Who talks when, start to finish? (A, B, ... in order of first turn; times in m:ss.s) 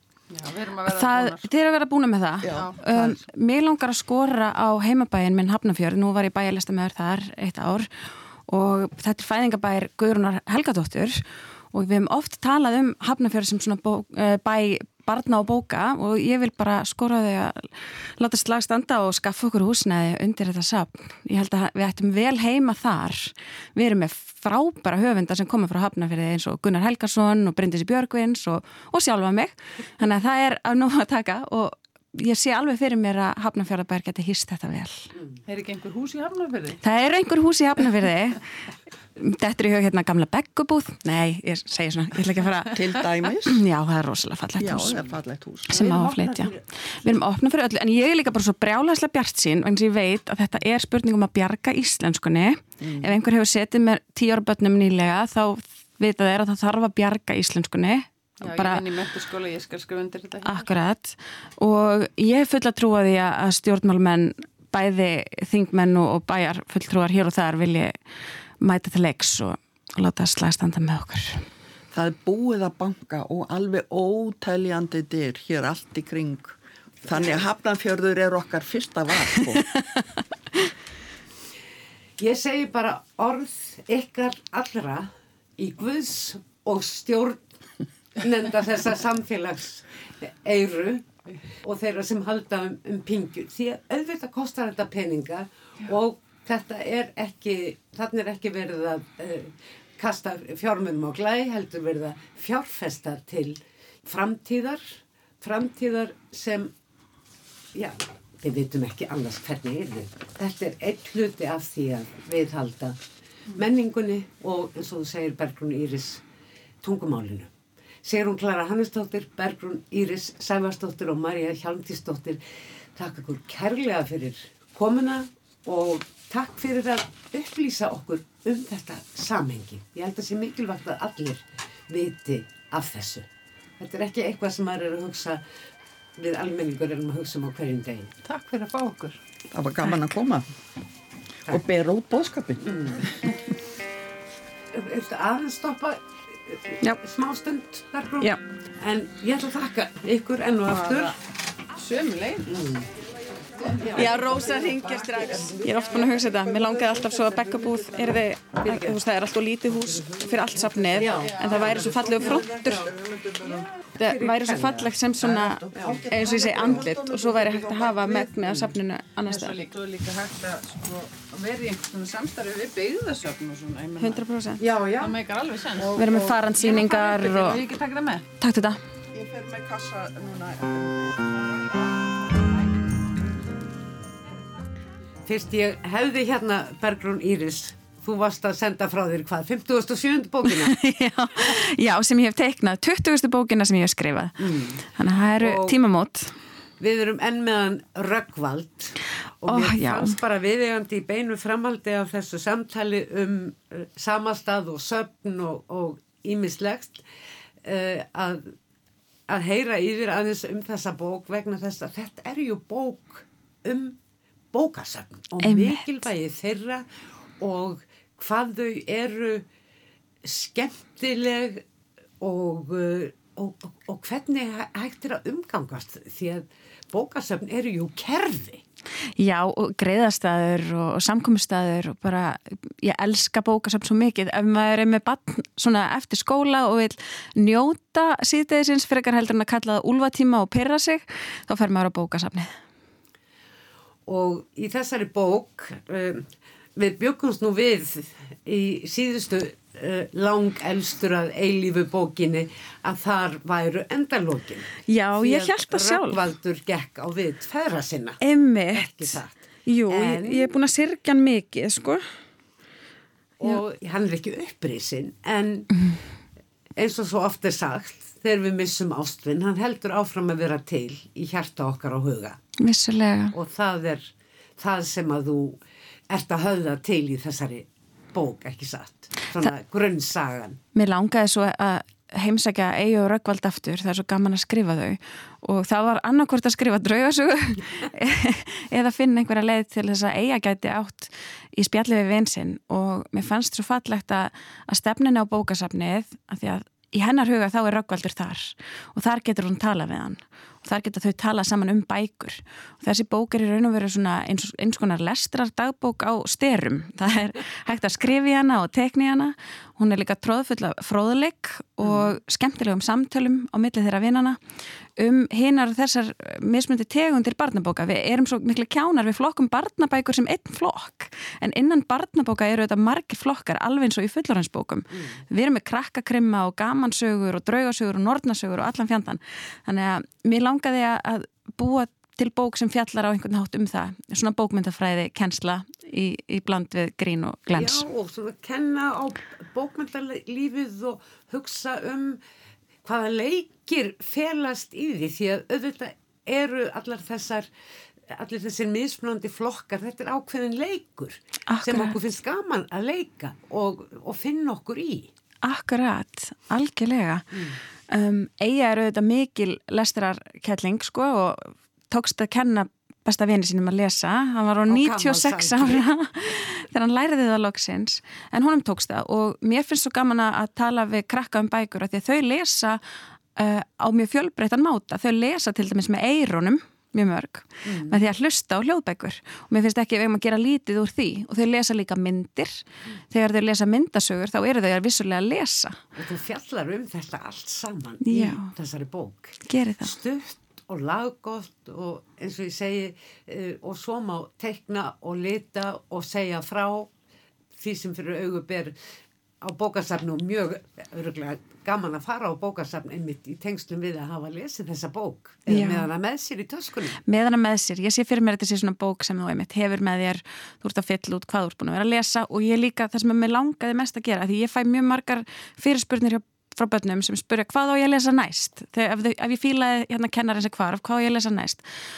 0:00.3-0:01.5 A
0:00.9-0:35.1 B
0:02.4-0:03.3 C
0:02.5-0:02.8 A
0:35.5-0:36.8 A
0:36.8-0:38.5 B
0:39.2-0:45.0 B
0:42.7-0:43.6 C
0:44.6-0:45.9 C
0:45.7-0:58.8 B
0:45.7-0:47.1 D
0:52.8-0:53.2 C
0:58.4-1:00.7 A
1:00.4-1:08.0 B
1:08.6-1:11.4 B
1:11.9-1:19.7 C
1:17.1-1:17.4 D
1:19.5-1:20.0 B
1:22.2-1:27.5 D
1:28.2-1:46.7 D
1:47.7-1:53.0 D
1:53.5-1:56.2 D
1:56.8-1:57.5 D
1:58.0-2:02.4 D
2:03.0-2:13.3 D
2:13.8-2:15.4 D
2:16.2-2:18.1 D
2:18.2-2:19.2 A
2:19.5-2:20.5 C
2:21.5-2:23.1 C
2:22.6-2:23.0 D
2:24.7-2:31.1 D
2:30.7-2:31.2 A
2:31.8-2:32.6 A
2:32.4-2:32.9 D
2:33.5-2:38.2 C
2:33.6-2:35.3 A
2:33.8-2:34.2 D
2:33.9-2:42.9 B
2:41.0-2:42.9 D
2:41.2-2:42.5 A
2:41.7-2:43.7 C
2:43.8-2:44.9 D
2:44.0-2:49.6 B
2:45.2-2:48.6 C
2:45.7-2:46.0 D
2:46.2-2:46.8 A
2:49.2-2:54.2 A
2:53.8-2:54.2 C
2:54.0-2:54.6 B
2:54.6-2:55.2 D
2:55.0-2:58.3 A
2:55.8-2:56.4 D
2:56.0-2:57.6 B
2:58.4-2:58.8 B
2:59.1-3:01.9 C
3:05.3-3:10.8 D
3:10.4-3:16.4 B
3:14.4-3:14.9 D
3:15.4-3:15.8 D
3:16.8-3:27.0 D
3:19.5-3:20.2 B
3:27.6-3:28.5 D
3:29.3-3:34.0 D
3:34.5-3:36.9 D
3:35.4-3:35.9 B
3:37.4-3:39.5 D
3:40.2-3:41.6 D
3:42.2-3:48.6 D
3:49.2-4:02.6 B
4:04.1-4:18.2 D
4:14.9-4:16.2 B
4:18.2-4:22.0 B
4:18.7-4:20.6 D
4:23.4-4:25.7 D
4:26.8-4:32.4 D
4:32.6-4:33.4 B
4:33.3-4:40.6 D
4:40.8-5:14.4 B
5:11.8-5:12.1 D
5:15.0-5:37.8 B
5:37.5-5:42.2 D
5:42.8-5:47.5 D
5:48.1-5:55.1 D
5:51.5-5:52.0 B
5:55.4-5:57.4 B
5:57.3-5:57.6 D
5:57.9-6:12.8 B
6:04.7-6:05.8 D
6:13.4-6:25.8 B
6:17.6-6:18.0 D
6:26.0-6:36.9 D
6:28.0-6:28.5 B
6:29.5-6:29.9 B
6:37.6-6:38.8 D
6:39.4-6:47.0 D
6:45.5-6:45.9 B
6:47.1-7:01.6 B